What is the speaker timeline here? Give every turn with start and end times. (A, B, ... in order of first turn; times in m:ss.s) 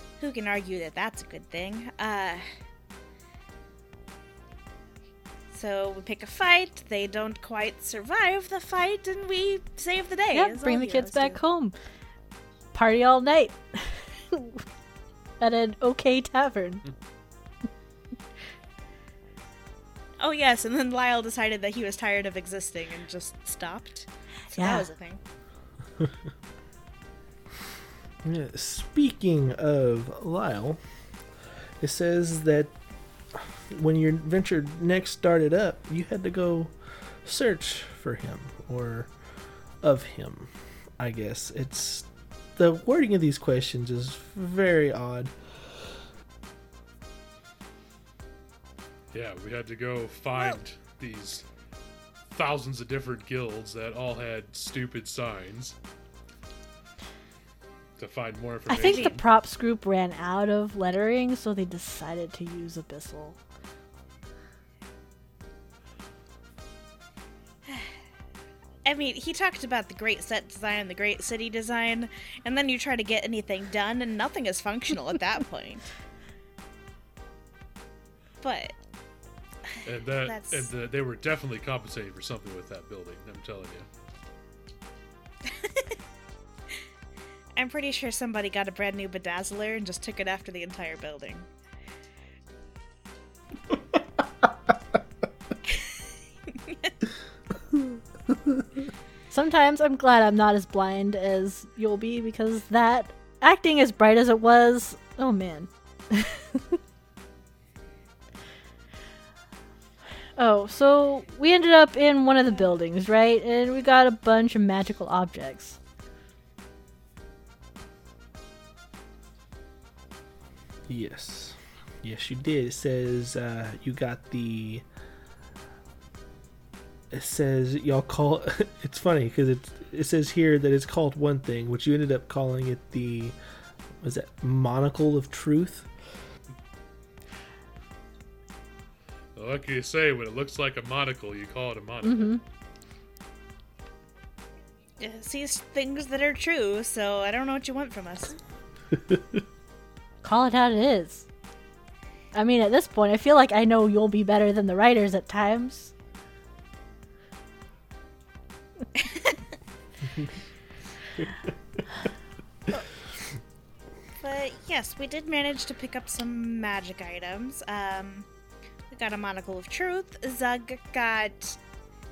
0:00.2-0:02.4 A
0:05.5-0:11.4 A
0:10.3-0:11.7 B
0:12.7-0:14.6 B
0:15.4-0:16.8 B
0:20.2-0:25.2 A
0:24.5-0:24.9 B
0:28.2-0:30.8 C
0:31.8-0:32.7 C
0:33.3-0:39.1 C
0:39.8-0:45.8 C
0:49.1-0:51.4 D
0:52.3-0:55.8 D
0:58.0-0:59.2 D
0:58.7-1:03.4 B
0:58.8-0:59.2 A
1:08.8-1:15.9 A
1:18.4-1:18.8 A
1:19.8-1:23.9 D
1:20.2-1:20.7 A
1:25.5-1:26.0 A
1:27.6-1:31.5 A
1:35.7-1:36.9 A
1:39.3-1:46.8 B
1:50.4-1:55.8 B
2:00.9-2:04.8 C
2:07.1-2:13.4 C
2:14.0-2:15.9 C
2:19.4-2:22.4 D
2:22.0-2:22.4 B
2:25.0-2:28.4 A
2:28.9-2:29.4 C
2:30.2-2:31.3 B
2:32.3-2:35.9 B
2:39.0-2:39.4 A
2:41.2-2:41.8 C
2:44.2-2:48.3 A
2:48.9-2:51.6 A